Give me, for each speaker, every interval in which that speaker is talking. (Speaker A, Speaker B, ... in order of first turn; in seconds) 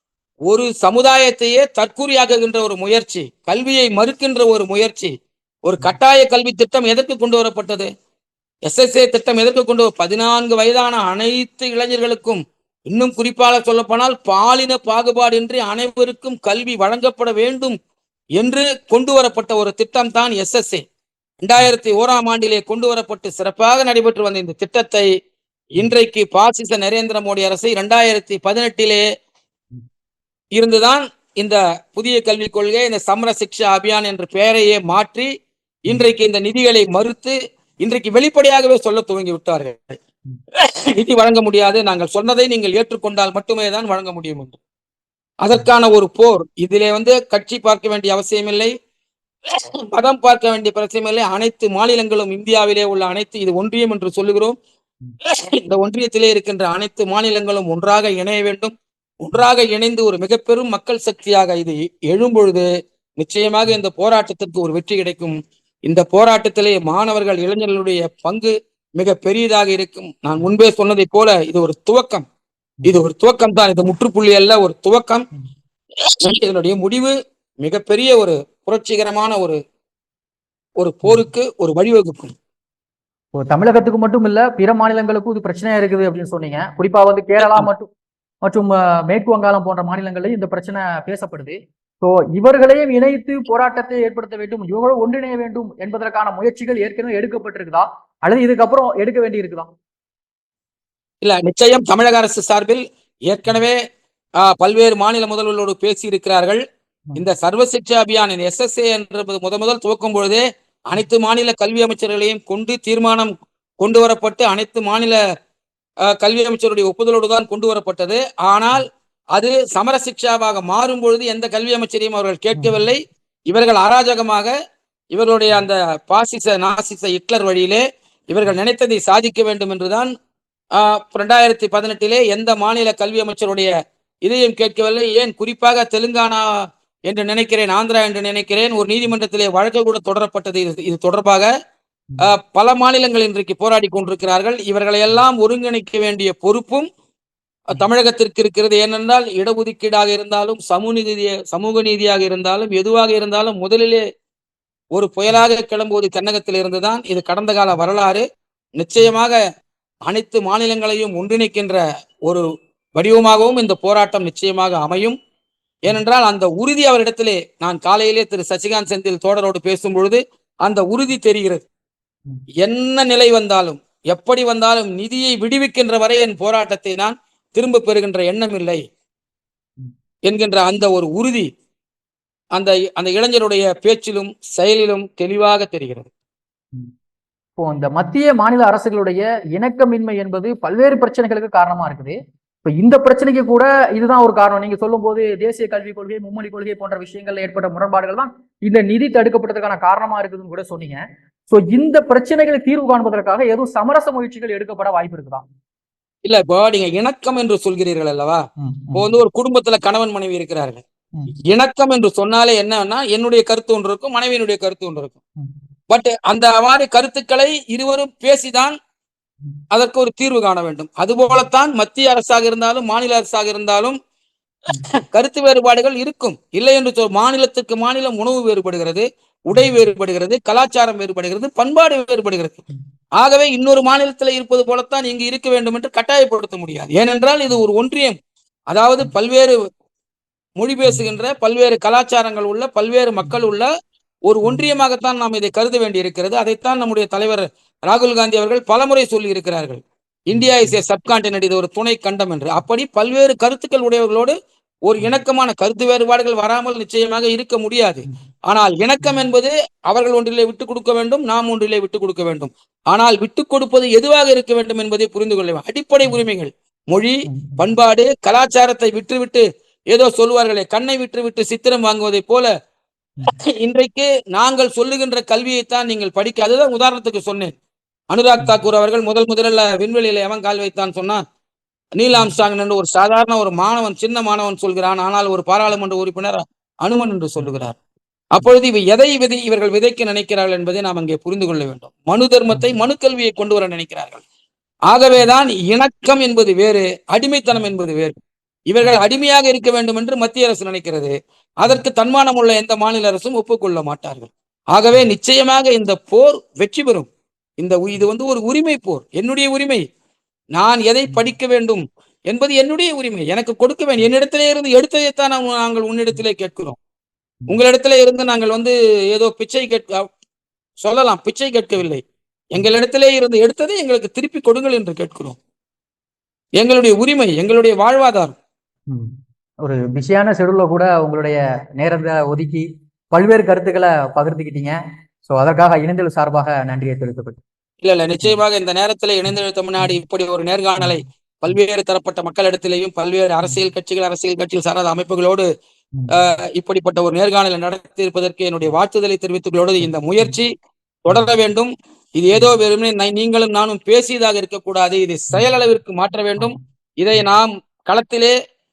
Speaker A: 0.5-5.1, 5.7-7.9, 8.7-17.8, 18.4-20.9, 21.4-25.1, 25.8-29.1, 30.6-35.3, 35.9-40.0, 40.6-44.6, 45.4-48.7, 49.5-54.6, 55.3-62.7, 63.2-72.3, 72.8-75.3, 76.3-79.6, 80.8-82.3, 87.4-87.7, 101.2-103.8, 104.4-106.6, 107.2-115.2, 116.1-118.8, 119.3-124.5, 125.1-130.1, 130.8-133.7, 134.2-141.5, 142.2-146.9, 147.7-154.0, 154.9-158.2, 158.8-159.4, 160.1-162.4, 163.0-165.2, 165.8-171.6, 172.6-178.8, 180.3-181.5, 182.6-186.1, 206.2-208.4, 208.9-210.8, 211.5-215.2, 215.9-218.8, 219.7-224.0, 225.1-232.6, 233.2-238.2, 238.7-239.5, 240.6-243.7, 244.3-254.3, 254.8-272.5, 273.3-277.6, 278.1-281.2, 282.0-287.8, 288.4-294.2, 294.9-298.2, 298.7-309.8, 310.6-316.8, 317.5-320.1, 320.8-322.0, 322.5-325.4, 326.6-328.4, 337.8-345.5, 346.1-350.5, 351.1-358.3
Speaker B: 83.4-87.9, 88.5-99.7, 122.6-122.8, 187.6-205.4, 208.6-209.1, 229.6-229.9, 250.3-250.8, 267.3-267.7, 292.5-292.8, 328.9-337.4, 352.4-352.6